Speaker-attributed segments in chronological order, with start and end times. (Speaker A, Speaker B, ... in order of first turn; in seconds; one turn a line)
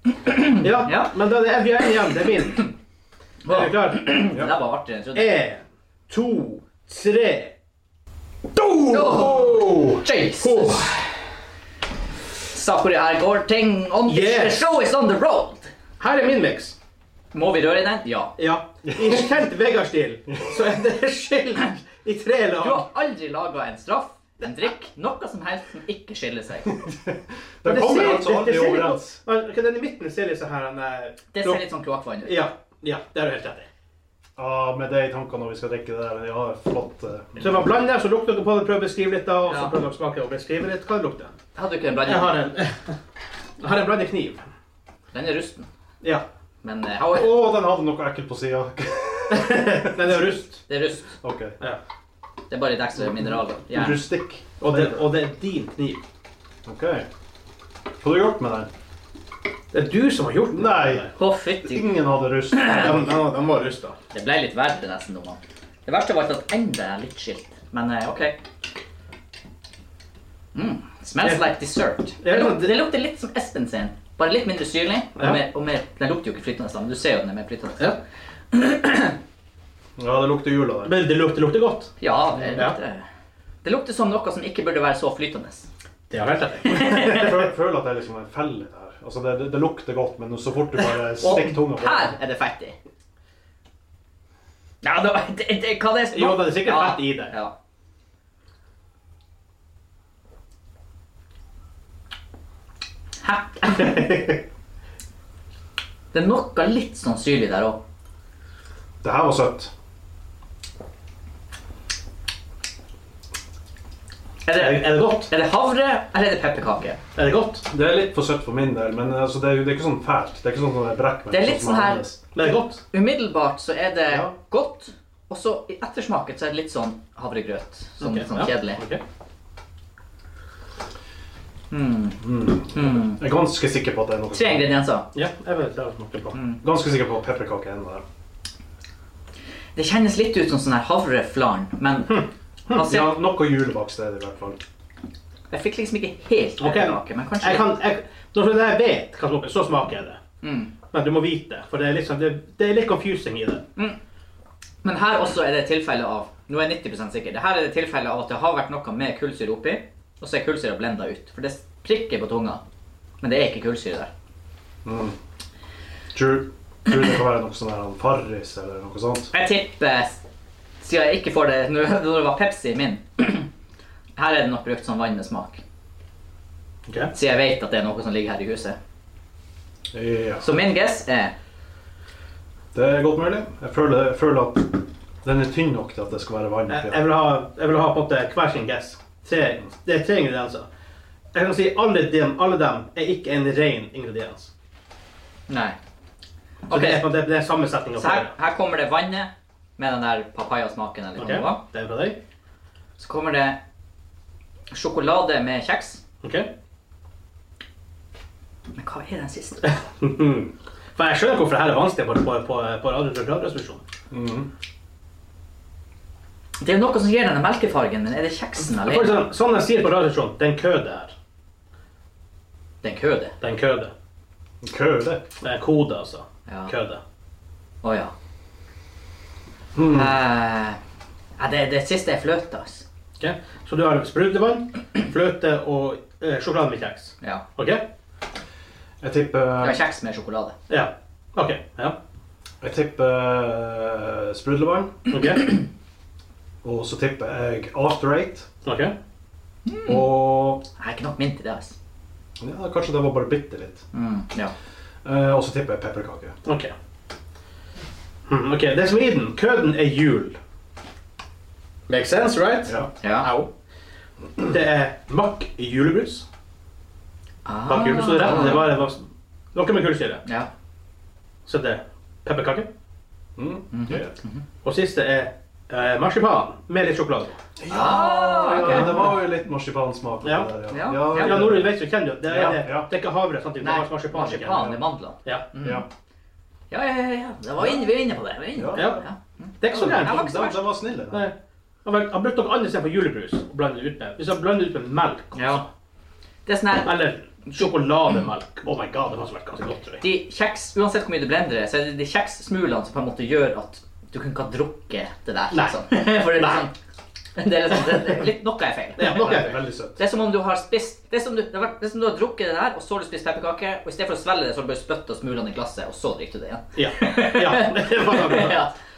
Speaker A: 0.2-1.2
Speaker B: 0.4-2.7
Speaker A: 3.4-5.4
Speaker B: 3.5-4.2
Speaker B: 5.2-7.5
Speaker B: 8.6-11.0
Speaker A: 8.9-10.9
Speaker A: 12.5-15.7
Speaker B: 14.1-14.8
Speaker B: 16.0-16.8
Speaker A: 17.3-18.4
Speaker B: 18.4-22.9
Speaker C: 18.9-19.1
Speaker A: 22.6-26.8
Speaker C: 26.7-29.2
Speaker B: 27.6-31.6
Speaker A: 31.3-32.4
Speaker B: 32.2-33.7
Speaker C: 34.4-37.7
Speaker B: 37.4-41.3
Speaker A: 39.5-39.8
Speaker A: 41.5-42.4
Speaker B: 42.1-42.8
Speaker B: 43.6-44.4
Speaker A: 45.1-45.7
Speaker A: 46.6-47.6
Speaker C: 47.1-50.3
Speaker B: 49.3-50.6
Speaker A: 50.7-51.1
Speaker C: 51.2-51.6
Speaker A: 52.5-54.1
Speaker C: 53.0-55.0
Speaker B: 54.6-56.0
Speaker C: 56.7-57.1
Speaker C: 58.0-58.7
Speaker B: 59.7-61.1
Speaker C: 60.5-63.2
Speaker A: 61.2-62.0
Speaker A: 62.5-63.2
Speaker B: 62.7-64.0
Speaker A: 64.1-68.4
Speaker A: 70.5-77.9
Speaker B: 71.2-71.5
Speaker B: 72.2-72.9
Speaker B: 75.2-75.4
Speaker A: 78.5-79.2
Speaker C: 80.0-81.0
Speaker B: 80.8-81.9
Speaker A: 82.0-83.0
Speaker C: 82.4-82.6
Speaker A: 83.6-85.7
Speaker B: 86.1-87.1
Speaker A: 86.7-87.5
Speaker C: 86.8-92.2
Speaker A: 91.2-92.8
Speaker A: 94.8-97.5
Speaker B: 96.1-97.3
Speaker A: 103.2-104.1
Speaker B: 103.8-104.4
Speaker A: 106.1-107.8
Speaker C: 109.0-109.7
Speaker A: 114.5-117.0
Speaker B: 114.5-115.3
Speaker B: 117.2-117.7
Speaker C: 117.7-122.2
Speaker A: 121.3-128.8
Speaker B: 122.3-122.8
Speaker C: 124.1-124.3
Speaker B: 128.0-129.0
Speaker A: 131.7-133.2
Speaker C: 132.2-134.8
Speaker A: 134.3-135.1
Speaker B: 135.1-136.4
Speaker A: 136.3-136.6
Speaker C: 136.5-138.0
Speaker A: 139.8-143.2
Speaker B: 142.1-142.9
Speaker C: 142.8-144.6
Speaker A: 145.5-147.7
Speaker B: 146.6-150.2
Speaker A: 150.4-150.7
Speaker B: 150.9-153.6
Speaker A: 154.8-162.6
Speaker A: 163.2-164.1
Speaker C: 164.8-165.2
Speaker C: 166.1-169.3
Speaker A: 169.3-170.2
Speaker A: 170.8-173.5
Speaker A: 174.2-175.6
Speaker A: 177.1-178.8
Speaker C: 179.9-180.5
Speaker A: 180.4-181.3
Speaker C: 182.7-187.0
Speaker B: 186.7-190.7
Speaker B: 191.3-194.5
Speaker A: 195.5-195.8
Speaker A: 196.7-197.1
Speaker B: 196.7-198.3
Speaker A: 198.0-201.6
Speaker B: 201.2-202.2
Speaker A: 203.0-203.6
Speaker A: 204.7-206.0
Speaker B: 206.2-206.5
Speaker A: 208.8-209.6
Speaker B: 209.6-213.8
Speaker C: 214.1-214.5
Speaker A: 216.6-219.2
Speaker B: 218.7-221.1
Speaker A: 222.8-223.3
Speaker B: 223.4-223.9
Speaker C: 224.6-225.2
Speaker B: 225.4-227.0
Speaker A: 226.5-226.7
Speaker A: 227.8-228.1
Speaker C: 229.8-230.2
Speaker A: 229.8-230.8
Speaker A: 231.4-232.8
Speaker B: 233.2-237.8
Speaker C: 239.0-239.8
Speaker A: 239.6-240.5
Speaker B: 240.7-242.0
Speaker C: 242.6-245.0
Speaker B: 245.1-245.6
Speaker C: 246.6-248.5
Speaker B: 248.7-248.9
Speaker A: 249.7-250.2
Speaker C: 249.9-250.6
Speaker A: 250.8-251.8
Speaker C: 252.4-253.8
Speaker A: 253.9-254.5
Speaker C: 255.1-256.4
Speaker B: 256.4-256.7
Speaker B: 258.3-260.4
Speaker B: 261.9-263.5
Speaker A: 263.0-263.3
Speaker B: 264.4-266.2
Speaker A: 267.4-268.8
Speaker B: 267.7-270.2
Speaker A: 270.2-270.5
Speaker B: 271.5-272.7
Speaker C: 273.4-274.1
Speaker A: 273.7-274.4
Speaker B: 274.6-277.4
Speaker C: 277.6-282.9
Speaker A: 277.7-279.2
Speaker B: 278.6-279.0
Speaker B: 280.2-285.4
Speaker A: 280.7-281.4
Speaker A: 283.6-285.8
Speaker A: 286.7-290.8
Speaker C: 288.6-289.0
Speaker B: 288.7-289.1
Speaker B: 289.6-290.2
Speaker C: 289.7-291.3
Speaker B: 291.1-295.7
Speaker A: 295.3-295.6
Speaker A: 296.5-298.2
Speaker B: 296.9-300.0
Speaker A: 300.0-306.7
Speaker B: 305.5-306.6
Speaker A: 307.4-318.7
Speaker B: 309.0-309.6
Speaker C: 309.1-310.0
Speaker B: 316.8-318.6